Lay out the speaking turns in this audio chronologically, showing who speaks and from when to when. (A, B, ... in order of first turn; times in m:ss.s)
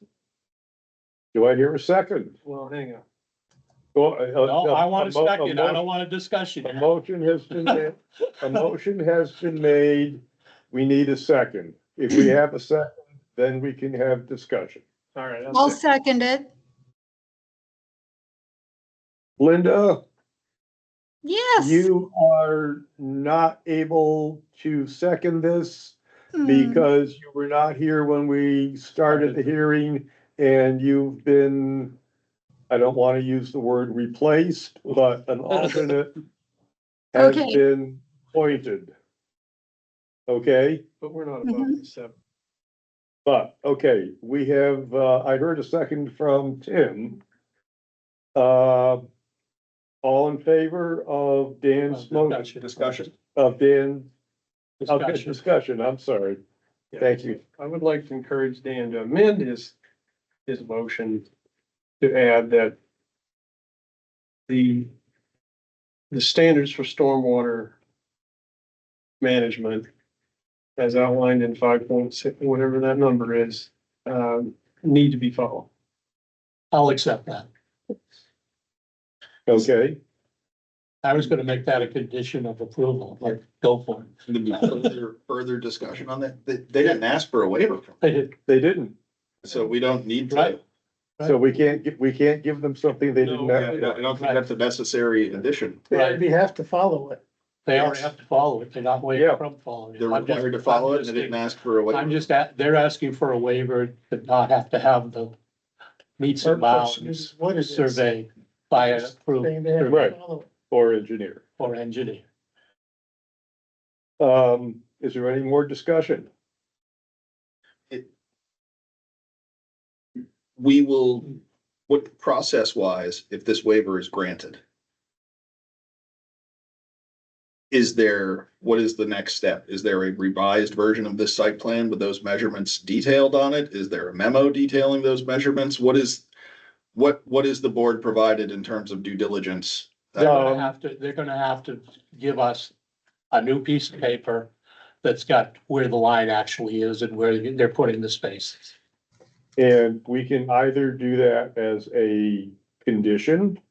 0:01.3-0:02.3 A
0:02.4-0:03.0 B
0:03.9-0:05.8 A
0:04.4-0:06.8 C
0:06.6-0:14.8 A
0:07.5-0:07.8 C
0:15.1-0:15.8 B
0:15.5-0:16.5 D
0:19.4-0:20.0 A
0:21.2-0:21.9 D
0:21.6-0:32.0 A
0:26.4-0:26.9 D
0:29.1-0:29.4 C
0:32.7-0:36.1 A
0:37.1-0:38.9 A
0:37.1-0:37.6 D
0:40.3-0:40.8 A
0:41.0-0:42.1 B
0:41.4-0:41.8 D
0:43.2-0:47.2 A
0:48.3-0:49.1 A
0:50.0-0:52.4 A
0:51.9-0:52.8 C
0:52.4-0:53.1 E
0:53.3-0:54.1 A
0:54.8-0:55.4 C
0:54.8-0:56.4 A
0:56.9-0:59.7 B
0:57.0-0:57.4 A
1:00.4-1:01.3 B
1:02.0-1:02.8 B
1:04.5-1:04.9 B
1:06.1-1:07.8 B
1:09.2-1:09.9 B
1:10.8-1:15.7 B
1:16.7-1:17.5 C
1:19.5-1:20.0 A
1:21.0-1:24.1 C
1:24.3-1:28.0 E
1:28.0-1:28.3 C
1:28.4-1:29.0 A
1:29.4-1:30.6 E
1:30.3-1:30.6 C
1:31.2-1:33.9 A
1:33.2-1:34.0 B
1:33.6-1:35.8 E
1:34.2-1:34.4 C
1:35.9-1:37.2 F
1:35.9-1:36.2 C
1:37.6-1:45.3 C
1:37.7-1:38.1 F
1:39.1-1:39.4 A
1:40.0-1:42.2 E
1:46.2-1:50.0 C
1:46.4-1:48.0 F
1:49.0-1:50.5 F
1:49.8-1:50.2 A
1:50.7-1:51.4 A
1:51.6-1:52.2 C
1:54.2-1:56.3 A
2:00.6-2:01.4 E
2:01.9-2:04.6 E
2:07.7-2:16.2 E
2:16.9-2:20.4 E
2:20.2-2:22.7 C
2:20.2-2:20.7 A
2:23.3-2:24.5 C
2:25.0-2:28.7 C
2:29.6-2:33.6 A